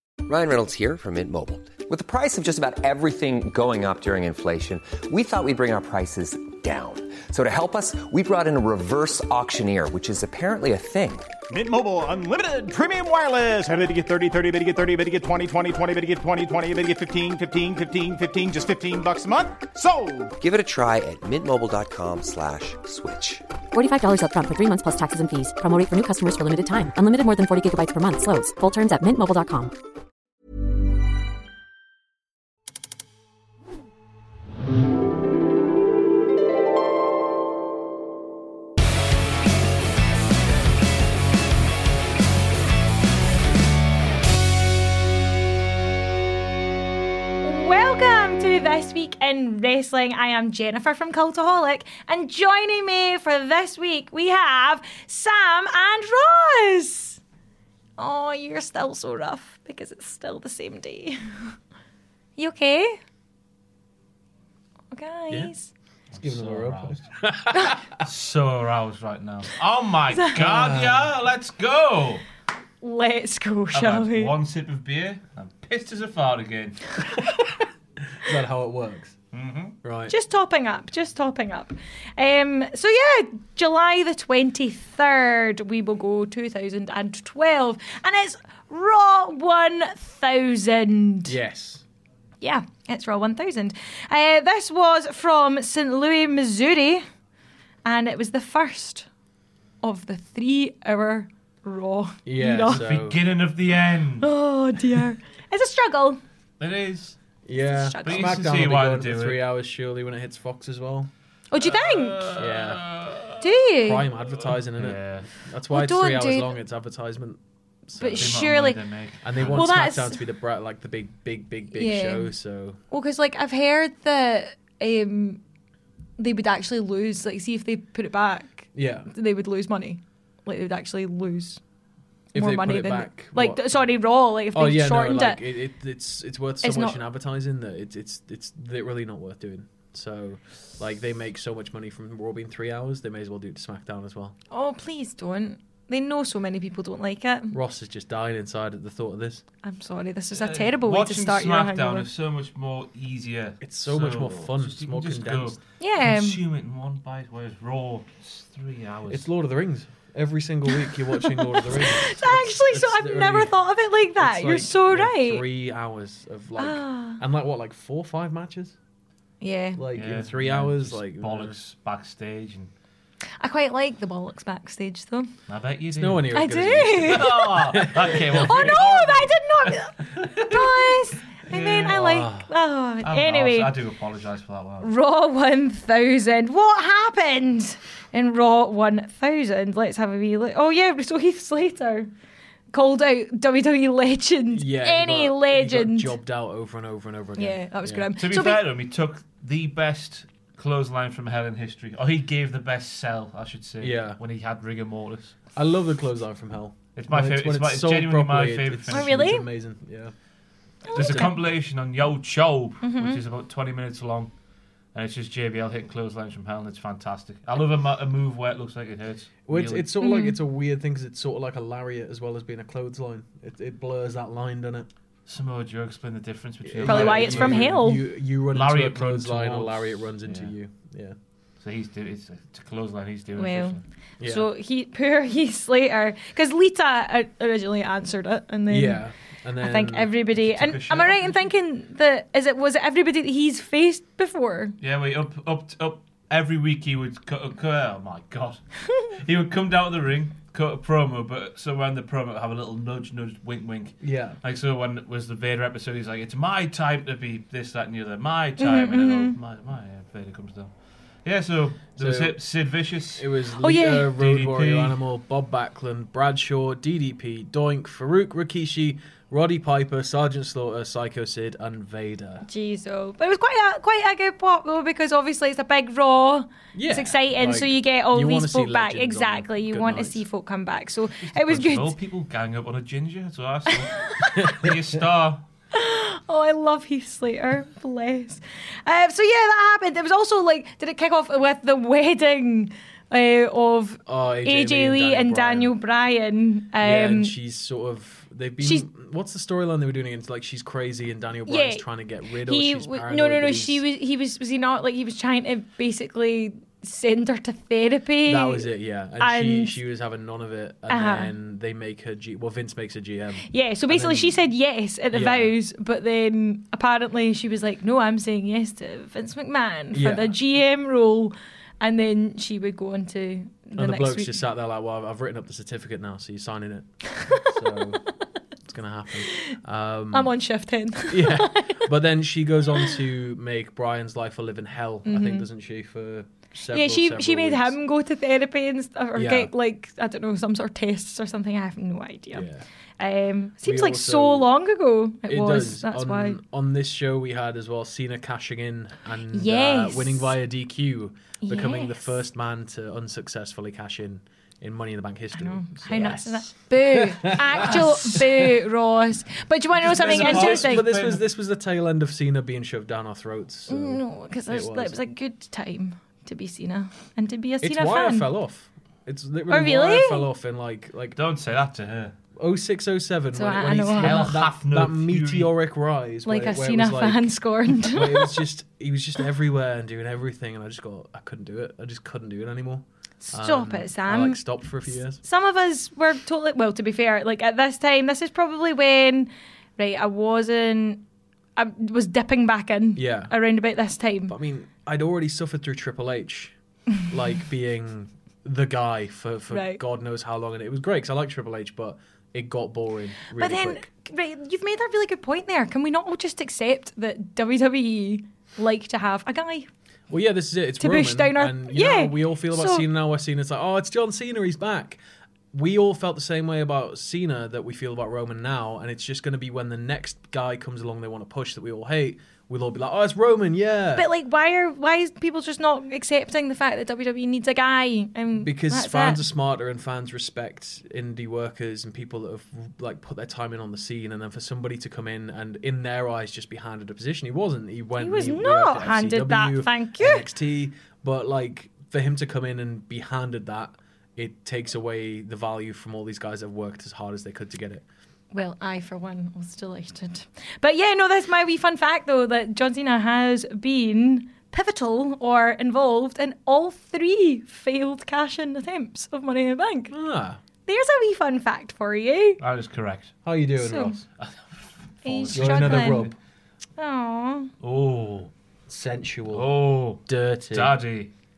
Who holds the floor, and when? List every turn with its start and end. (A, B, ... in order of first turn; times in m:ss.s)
0:00.3-0:11.3 A
0:11.5-0:20.4 B
0:20.4-0:23.4 A
0:23.7-0:29.7 C
0:47.4-0:57.2 D
0:58.0-1:01.5 D
1:02.4-1:03.0 D
1:04.9-1:05.7 D
1:06.1-1:07.0 E
1:06.2-1:08.0 F
1:08.0-1:12.2 E
1:10.4-1:11.1 F
1:12.8-1:14.3 D
1:13.7-1:16.8 E
1:17.2-1:17.6 F
1:18.2-1:19.2 F
1:19.3-1:19.8 E
1:19.8-1:20.1 F
1:20.1-1:31.4 D
1:31.3-1:31.8 F
1:32.4-1:37.0 D
1:37.8-1:39.1 D
1:39.8-1:42.8 D
1:42.2-1:43.2 F
1:42.7-1:44.3 E
1:44.2-1:46.2 D
1:46.6-1:47.2 E
1:47.5-1:51.1 F
1:47.7-1:48.3 D
1:48.0-1:49.4 E
1:51.5-1:52.4 D
1:51.6-1:53.5 E
1:52.4-1:52.8 F
1:53.4-1:54.0 D
1:53.8-1:58.4 F
1:54.6-1:55.3 E
1:55.7-1:56.5 D
1:58.0-1:58.8 D
1:58.2-1:59.6 E
1:59.2-2:02.8 F
1:59.5-2:00.2 D
2:01.7-2:02.3 D
2:02.9-2:05.4 D
2:06.2-2:11.6 D
2:08.7-2:09.1 F
2:12.3-2:13.8 F
2:12.3-2:15.4 D
2:14.5-2:24.4 F
2:16.6-2:17.0 D
2:24.5-2:27.6 D
2:27.5-2:29.4 F
2:29.6-2:32.1 D
2:30.4-2:39.2 E
2:33.6-2:35.6 F
2:35.8-2:36.4 D
2:39.1-2:43.5 F
2:40.7-2:45.4 D
2:44.2-2:48.8 F
2:46.6-2:47.2 D
2:49.4-2:49.8 D
2:49.8-2:51.6 F
2:49.9-2:52.7 E
2:53.4-2:55.3 D
2:55.5-2:56.3 E
2:56.0-2:58.8 F
2:56.3-3:03.7 D
2:57.0-3:02.0 E
3:01.9-3:02.5 F
3:03.0-3:04.9 E
3:04.8-3:12.1 D
3:12.7-3:16.1 D
3:14.5-3:18.1 F
3:17.4-3:18.6 D
3:18.2-3:25.4 E
3:23.8-3:24.2 F
3:25.5-3:30.1 F
3:27.0-3:29.2 E
3:28.9-3:29.4 D
3:30.8-3:31.3 D
3:30.9-3:31.3 F
3:31.0-3:34.3 E
3:32.8-3:33.2 D
3:34.9-3:39.9 E
3:39.5-3:44.9 F
3:40.0-3:40.4 D
3:45.3-3:47.8 E
3:46.6-3:51.2 F
3:46.8-3:48.0 D
3:48.5-3:50.5 E
3:51.6-3:53.8 E
3:53.4-3:59.0 D
3:54.2-3:54.5 F
3:58.7-4:00.2 F
3:59.6-4:04.7 D
4:00.4-4:01.4 E
4:04.8-4:20.7 E
4:14.0-4:14.4 F
4:18.6-4:19.4 D
4:21.2-4:23.3 E
4:22.0-4:22.4 F
4:23.1-4:32.4 F
4:23.6-4:24.1 D
4:24.2-4:25.0 E
4:32.4-4:41.9 D
4:36.7-4:40.2 F
4:41.2-4:45.4 E
4:44.1-4:44.4 D
4:44.4-4:44.8 F
4:45.7-4:57.3 D
4:54.1-4:55.7 F
4:56.8-5:03.8 F
4:58.6-4:58.9 D
5:01.5-5:01.8 D
5:02.4-5:08.7 D
5:08.3-5:14.4 F
5:09.2-5:09.8 D
5:10.9-5:11.3 D
5:13.5-5:24.4 D
5:15.1-5:15.5 F
5:19.9-5:20.3 F
5:23.8-5:28.0 F
5:27.1-5:27.8 D
5:28.6-5:30.3 F
5:29.3-5:29.6 D
5:30.1-5:31.9 D
5:31.1-5:37.8 F
5:35.0-5:35.5 D
5:36.7-5:42.5 D
5:39.2-5:39.5 F
5:42.3-5:42.6 F
5:43.0-5:46.4 D
5:43.6-5:44.5 F
5:45.3-5:58.5 F
5:49.3-5:50.4 D
5:51.4-5:52.2 D
5:55.4-6:00.9 D
5:59.8-6:01.2 E
5:59.9-6:05.0 F
6:03.7-6:08.3 D
6:07.6-6:11.2 F
6:09.5-6:10.3 D
6:11.2-6:12.1 E
6:12.4-6:25.2 F
6:13.4-6:14.3 D
6:14.0-6:15.5 E
6:16.3-6:18.4 D
6:23.2-6:24.4 D
6:25.2-6:31.0 D
6:31.6-6:34.3 D
6:33.0-6:33.3 F
6:34.3-6:36.5 F
6:37.1-6:43.9 F
6:39.5-6:39.8 D
6:43.3-6:49.7 D
6:50.1-6:55.0 F
6:50.8-6:52.9 D
6:55.5-7:04.1 F
7:04.0-7:09.2 D
7:08.4-7:27.8 F
7:18.0-7:20.2 D
7:28.3-7:39.9 D
7:39.9-7:40.4 F
7:40.7-7:42.4 D
7:42.4-7:43.1 E
7:43.2-7:44.0 F
7:43.6-7:44.0 D
7:44.2-7:46.1 E
7:45.0-7:46.1 D
7:45.3-7:46.1 F
7:46.8-7:47.5 D
7:47.6-7:48.3 E
7:48.7-7:50.8 F
7:49.3-7:51.1 E